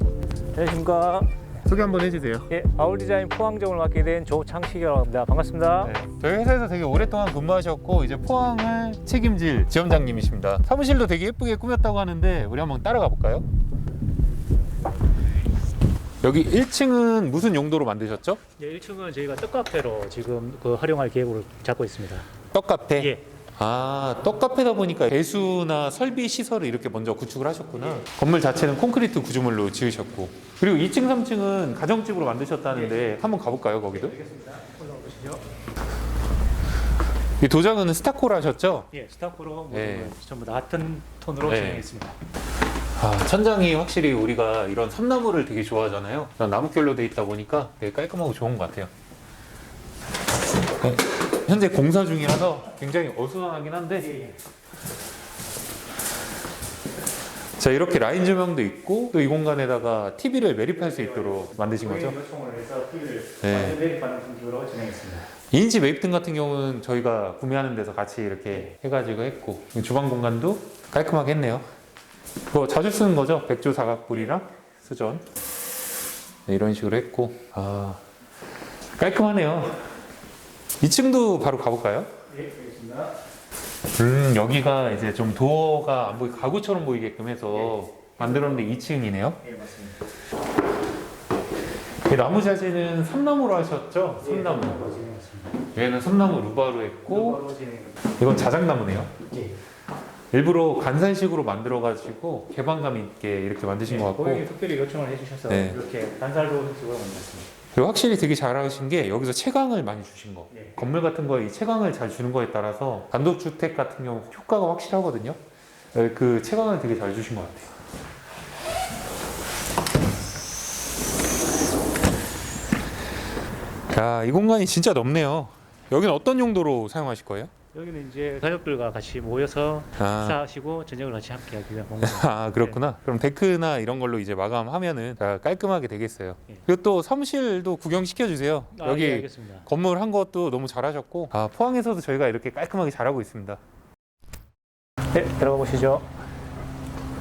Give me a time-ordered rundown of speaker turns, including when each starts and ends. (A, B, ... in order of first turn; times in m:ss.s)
0:00.6-0:01.3 A
0:01.6-0:02.5 B
0:02.5-0:06.0 A
0:05.8-0:13.5 B
0:16.2-0:18.4 B
0:18.6-0:22.3 A
0:22.5-0:34.2 B
0:23.0-0:23.2 A
0:32.7-0:33.2 A
0:33.9-0:35.4 A
0:37.4-0:38.9 B
0:38.9-0:42.2 A
0:39.7-0:40.2 B
0:41.5-0:41.9 B
0:43.0-0:48.9 B
0:50.8-0:54.3 B
0:54.0-0:54.4 A
0:57.6-1:02.2 B
1:00.8-1:05.3 A
1:03.4-1:03.8 B
1:05.5-1:11.6 B
1:12.5-1:15.3 B
1:16.5-1:18.0 B
1:19.0-1:19.8 B
1:20.8-1:22.1 B
1:22.3-1:23.2 A
1:24.0-1:29.4 B
1:27.6-1:28.6 A
1:29.4-1:30.0 A
1:32.1-1:35.0 B
1:34.2-1:35.6 A
1:35.8-1:37.4 B
1:37.1-1:38.0 A
1:38.2-1:39.2 B
1:39.2-1:39.6 A
1:40.3-1:44.4 B
1:43.8-1:47.5 A
1:45.5-1:45.8 B
1:47.8-1:55.4 B
1:50.5-1:50.8 A
1:55.9-1:57.7 B
2:03.9-2:07.5 B
2:07.7-2:12.8 A
2:10.0-2:10.4 B
2:12.0-2:23.6 B
2:18.7-2:19.7 A
2:25.1-2:26.1 A